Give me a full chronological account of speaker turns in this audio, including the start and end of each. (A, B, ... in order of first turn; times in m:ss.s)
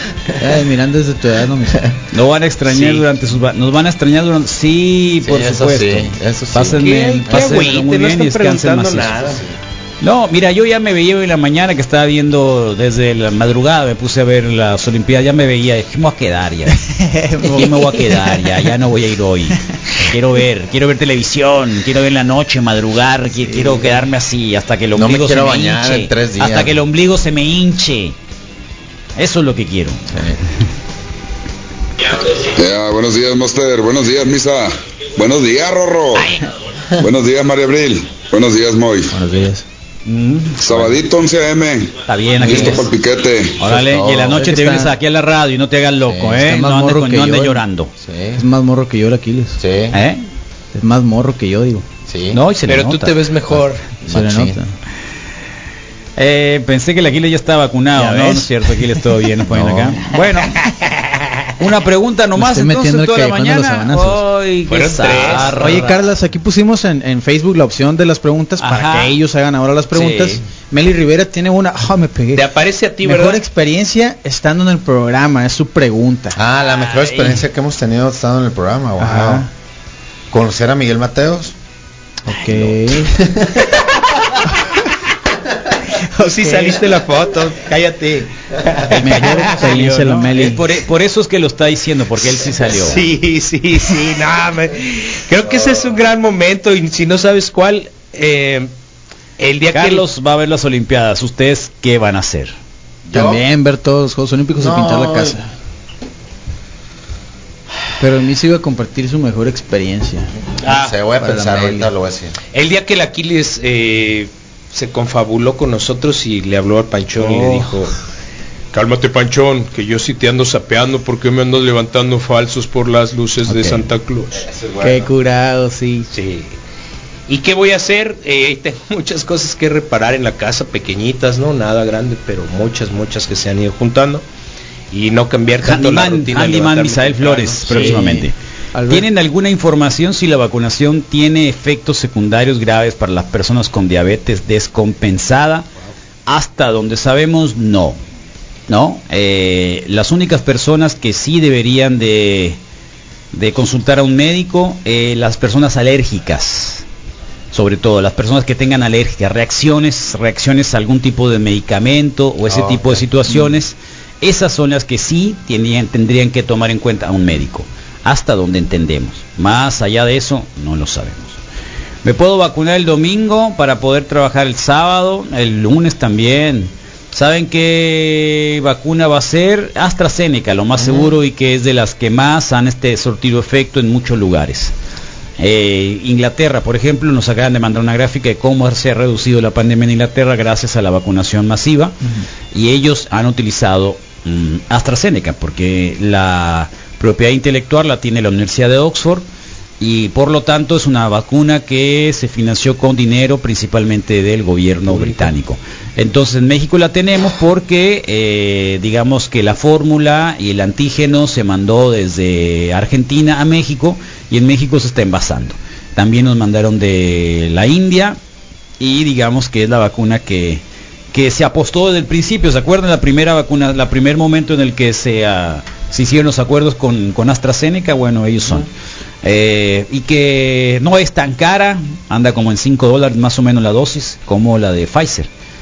0:00.4-0:01.8 A
0:02.1-0:09.3 B
0:05.2-0:07.7 C
0:06.8-0:09.4 D
0:09.2-0:09.6 C
0:10.0-0:16.8 B
0:16.8-0:18.7 A
0:17.4-0:28.2 B
0:23.4-0:24.0 A
0:25.0-0:26.8 C
0:29.2-0:30.0 B
0:30.1-0:30.4 C
0:32.5-0:36.3 E
0:37.0-0:39.1 E
0:39.1-0:39.6 A
0:40.1-0:41.0 B
0:40.6-0:43.6 E
0:42.1-0:42.9 B
0:42.4-0:42.9 C
0:43.6-0:47.9 B
0:43.7-0:44.4 C
0:44.3-0:44.9 A
0:46.1-0:46.4 C
0:46.4-0:47.6 A
0:48.0-0:48.4 C
0:48.4-0:49.6 A
0:49.6-0:50.0 C
0:49.9-0:50.2 B
0:50.7-0:51.8 A
0:52.1-0:52.4 C
0:52.3-0:53.3 B
0:52.7-0:53.8 D
0:54.1-0:54.6 C
0:54.1-0:54.7 A
0:56.2-1:00.6 B
0:58.0-1:00.0 A
1:01.6-1:06.0 B
1:02.4-1:04.2 A
1:04.7-1:05.6 D
1:05.6-1:12.4 A
1:08.6-1:09.2 B
1:09.9-1:10.4 B
1:12.3-1:13.4 D
1:13.0-1:16.4 A
1:16.4-1:19.5 C
1:16.7-1:17.4 B
1:19.0-1:19.5 A
1:20.3-1:21.5 C
1:22.3-1:23.2 A
1:22.5-1:23.7 C
1:26.2-1:26.8 A
1:26.2-1:29.4 D
1:28.9-1:30.6 A
1:29.0-1:33.1 B
1:32.6-1:38.7 D
1:39.4-1:40.0 D
1:39.7-1:42.5 B
1:43.1-1:43.4 C
1:43.1-1:45.5 A
1:44.6-1:45.4 C
1:48.0-1:50.3 A
1:50.6-1:50.9 D
1:50.6-1:52.4 C
1:51.2-1:51.9 A
1:52.5-1:57.9 D
1:57.2-1:57.7 A
1:58.7-2:04.4 D
2:03.5-2:03.8 A
2:04.3-2:05.1 C
2:04.8-2:06.1 A
2:06.1-2:06.6 D
2:07.3-2:14.2 D
2:14.9-2:18.1 D
2:15.6-2:18.3 B
2:17.7-2:19.1 A
2:18.9-2:25.7 B
2:26.3-2:28.0 B
2:28.7-2:32.6 B
2:33.3-2:36.8 B
2:37.5-2:51.4 B
2:42.4-2:43.0 C
2:52.0-3:04.7 B
3:00.8-3:01.2 C
3:05.4-3:12.0 B
3:12.5-3:19.2 B
3:19.8-3:38.2 B
3:24.9-3:25.3 D
3:38.8-3:40.6 B
3:41.1-3:48.7 B
3:49.2-3:55.3 B